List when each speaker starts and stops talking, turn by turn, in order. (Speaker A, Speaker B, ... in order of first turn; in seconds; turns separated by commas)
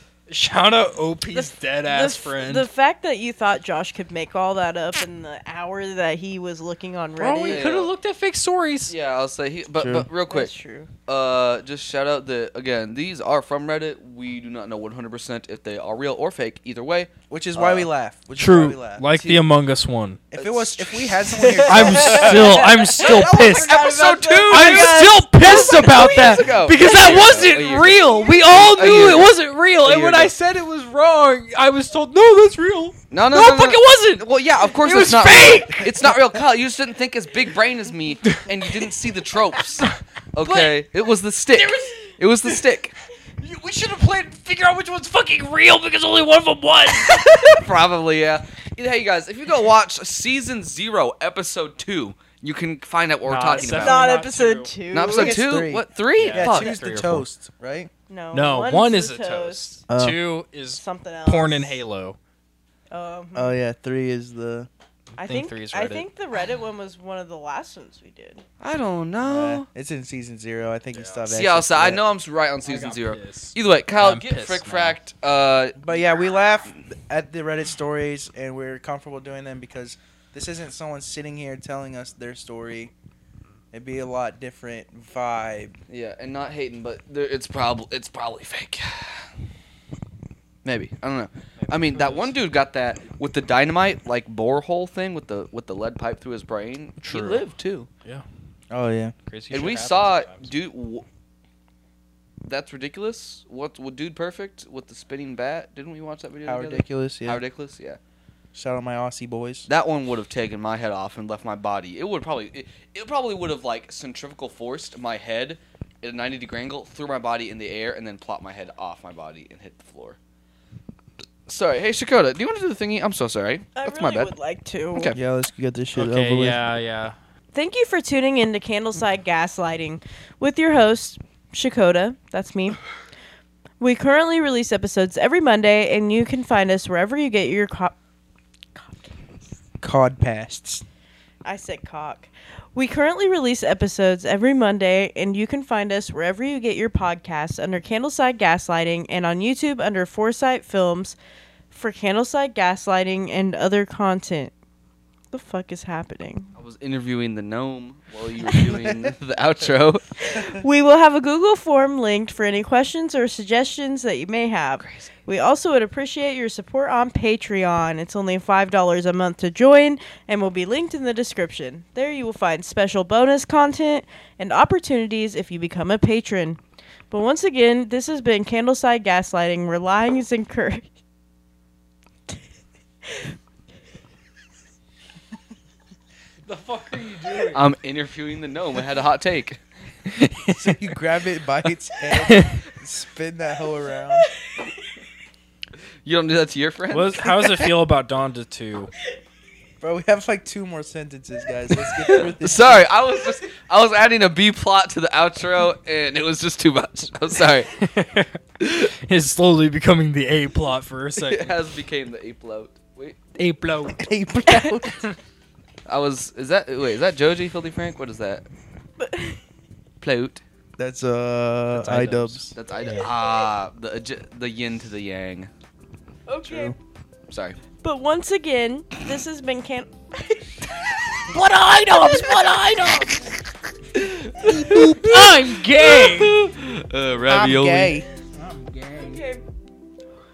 Speaker A: 0.3-2.7, Speaker B: 1.3-7.6, Speaker A: 7.2-8.9, Speaker C: 7.5-7.9, Speaker C: 8.9-10.5, Speaker D: 9.8-10.1, Speaker B: 10.3-10.9, Speaker C: 11.1-17.9, Speaker D: 17.3-19.1, Speaker A: 18.4-20.2, Speaker C: 19.1-19.4, Speaker D: 20.3-23.2, Speaker C: 20.3-30.3, Speaker A: 21.3-23.7, Speaker B: 22.0-27.2, Speaker A: 24.4-36.1, Speaker C: 33.1-42.9, Speaker A: 38.3-38.9, Speaker A: 40.4-40.8, Speaker A: 41.5-42.6, Speaker A: 43.4-47.6, Speaker C: 47.1-54.1, Speaker A: 53.2-54.7, Speaker B: 53.5-55.4, Speaker C: 54.9-56.8, Speaker D: 55.1-57.9, Speaker A: 56.2-57.2, Speaker B: 58.1-59.7, Speaker A: 58.3-62.2, Speaker D: 59.9-60.2, Speaker B: 60.8-61.8, Speaker B: 62.9-63.5, Speaker D: 63.3-64.7, Speaker A: 65.2-66.0, Speaker B: 65.2-68.4, Speaker C: 68.6-69.7, Speaker D: 69.2-72.0, Speaker A: 70.9-71.3, Speaker C: 71.3-75.8, Speaker A: 72.6-75.0, Speaker D: 75.8-82.9, Speaker D: 83.7-85.7, Speaker C: 85.9-89.3, Speaker C: 90.6-97.9, Speaker A: 91.6-92.4, Speaker A: 97.0-97.4, Speaker D: 98.7-99.1, Speaker A: 99.3-100.5, Speaker C: 99.5-101.0, Speaker C: 102.4-108.0, Speaker D: 106.4-107.4, Speaker D: 108.5-109.7, Speaker C: 109.7-120.2, Speaker C: 121.5-124.3, Speaker B: 123.8-125.1, Speaker D: 125.1-126.6, Speaker A: 125.9-127.2, Speaker B: 127.5-132.8, Speaker B: 133.8-137.9, Speaker B: 138.7-139.5, Speaker D: 139.8-140.8, Speaker B: 141.4-151.2, Speaker B: 151.7-154.5, Speaker B: 155.3-156.5, Speaker C: 156.6-160.0, Speaker B: 160.2-180.9, Speaker C: 164.8-165.1, Speaker A: 186.4-187.6, Speaker C: 187.5-189.6, Speaker A: 190.1-190.8, Speaker D: 190.5-194.3, Speaker A: 192.2-192.6, Speaker C: 196.0-197.7, Speaker A: 196.9-198.9, Speaker D: 199.8-202.9, Speaker C: 202.0-207.7, Speaker A: 207.7-211.5, Speaker C: 211.2-213.2, Speaker A: 213.3-215.2, Speaker D: 213.9-215.1, Speaker C: 215.9-218.4, Speaker B: 219.0-219.4, Speaker C: 220.0-220.4, Speaker D: 220.8-222.5, Speaker A: 221.7-223.1, Speaker C: 222.5-225.5, Speaker B: 226.3-226.7, Speaker D: 226.5-226.7, Speaker C: 227.3-227.6, Speaker B: 227.8-230.5, Speaker A: 231.3-233.4, Speaker C: 233.9-237.9, Speaker A: 234.4-236.4, Speaker D: 237.3-238.1, Speaker A: 238.3-239.2, Speaker B: 239.0-239.4